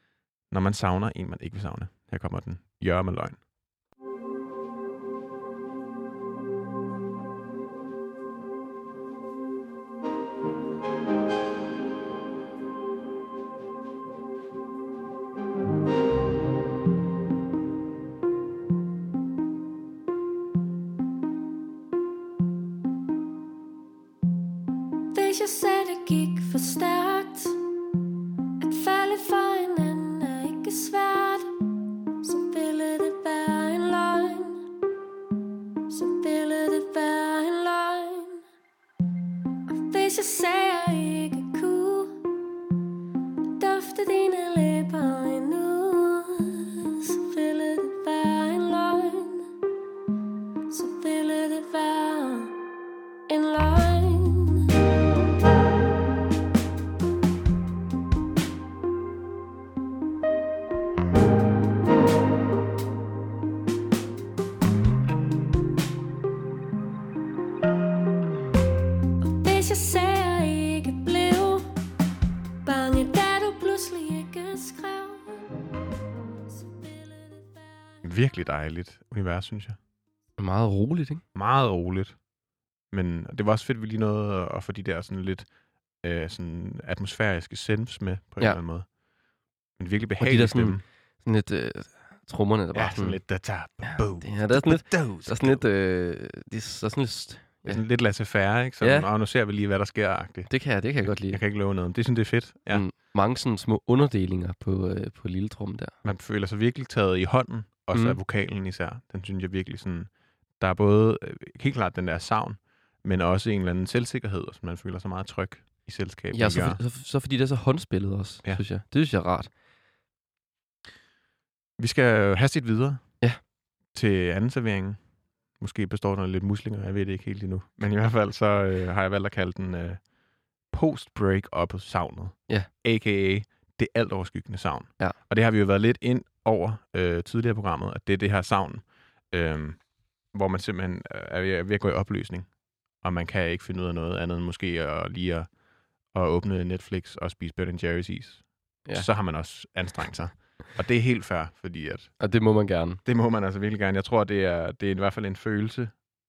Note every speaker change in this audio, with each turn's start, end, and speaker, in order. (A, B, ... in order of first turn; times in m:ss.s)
0:00.5-0:03.4 A
0:25.1-0:27.6 B
0:28.6-0:31.5 B
0:32.2-0:34.6 B
0:35.9-0:38.4 B
0:39.7-0:42.2 B
0:43.6-0:49.5 B
0:50.7-0:52.6 B
0:53.3-0:54.7 B
1:09.3-1:11.7 B
1:12.6-1:15.5 B
1:16.6-1:17.6 B
1:18.0-1:19.8 A
1:20.4-1:21.2 C
1:21.4-1:22.2 A
1:22.9-1:25.5 A
1:26.0-1:28.9 A
1:29.8-1:30.8 A
1:30.2-1:33.2 C
1:32.7-1:35.6 A
1:33.8-1:37.8 C
1:37.6-1:42.8 A
1:38.8-1:39.1 C
1:40.5-1:41.4 C
1:42.7-1:46.0 C
1:46.0-1:56.8 A
1:47.9-1:48.2 C
1:56.3-1:59.5 C
2:01.8-2:03.1 A
2:03.9-2:05.0 A
2:05.6-2:10.1 A
2:10.7-2:25.5 A
2:26.1-2:32.2 A
2:32.2-2:33.0 C
2:33.0-2:36.0 A